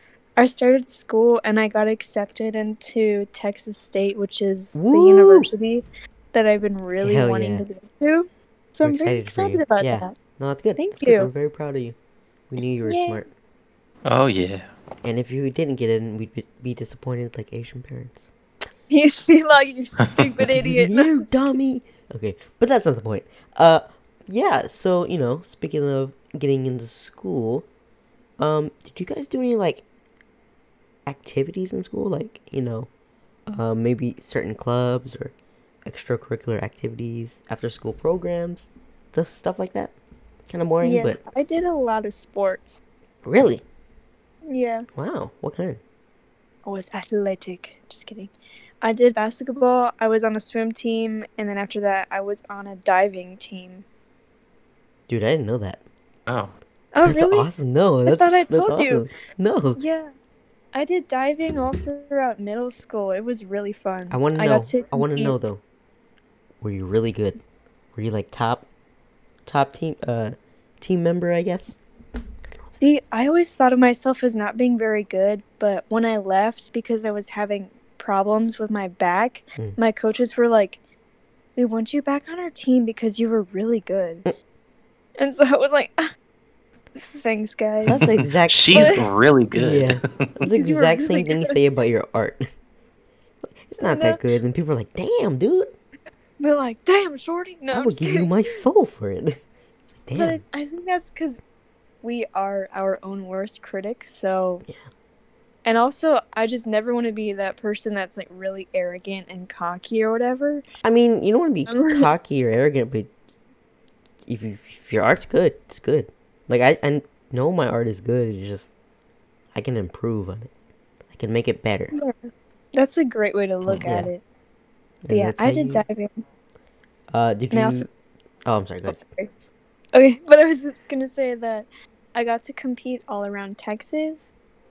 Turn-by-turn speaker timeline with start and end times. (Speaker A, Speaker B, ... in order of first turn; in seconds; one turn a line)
Speaker A: 0.4-10.1
Speaker B: 4.8-5.5
Speaker B: 7.0-7.6
Speaker B: 8.8-12.0
Speaker A: 10.8-11.3
Speaker B: 12.5-13.3
Speaker A: 12.8-13.2
Speaker C: 14.0-14.7
Speaker B: 15.0-18.3
Speaker A: 18.9-21.3
Speaker B: 20.6-27.6
Speaker B: 28.4-29.8
Speaker B: 31.1-32.9
Speaker B: 33.5-35.3
Speaker B: 35.9-39.9
Speaker B: 40.5-41.2
Speaker A: 40.8-42.8
Speaker B: 43.2-43.6
Speaker A: 44.5-44.9
Speaker B: 44.9-45.8
Speaker A: 46.6-53.8
Speaker B: 55.1-55.8
Speaker C: 56.3-56.5
Speaker A: 56.9-57.5
Speaker B: 57.0-59.8
Speaker A: 58.1-59.0
Speaker A: 59.8-60.1
Speaker A: 60.7-65.3
Speaker B: 64.1-65.6
Speaker B: 66.6-67.4
Speaker B: 67.9-68.7
Speaker B: 69.5-71.8
Speaker A: 72.8-80.8
Speaker A: 81.5-84.2
Speaker A: 85.2-86.1
Speaker A: 87.0-88.1
Speaker B: 87.8-89.0
Speaker C: 88.0-90.3
Speaker A: 88.7-89.0
Speaker B: 89.5-92.5
Speaker A: 90.5-91.6
Speaker B: 93.5-95.7
Speaker A: 93.9-94.2
Speaker A: 96.4-98.5
Speaker B: 97.7-99.4
Speaker B: 100.0-100.4
Speaker A: 100.2-101.4
Speaker A: 102.0-104.6
Speaker A: 105.6-110.6
Speaker B: 110.8-113.1
Speaker A: 111.7-112.1
Speaker B: 114.3-118.7
Speaker B: 119.5-120.5
Speaker B: 121.1-121.9
Speaker A: 122.7-124.2
Speaker B: 123.7-124.1
Speaker B: 125.0-125.8
Speaker A: 125.1-126.1
Speaker B: 127.1-127.9
Speaker A: 127.5-127.9
Speaker B: 128.4-129.0
Speaker A: 128.9-129.3
Speaker A: 129.9-134.3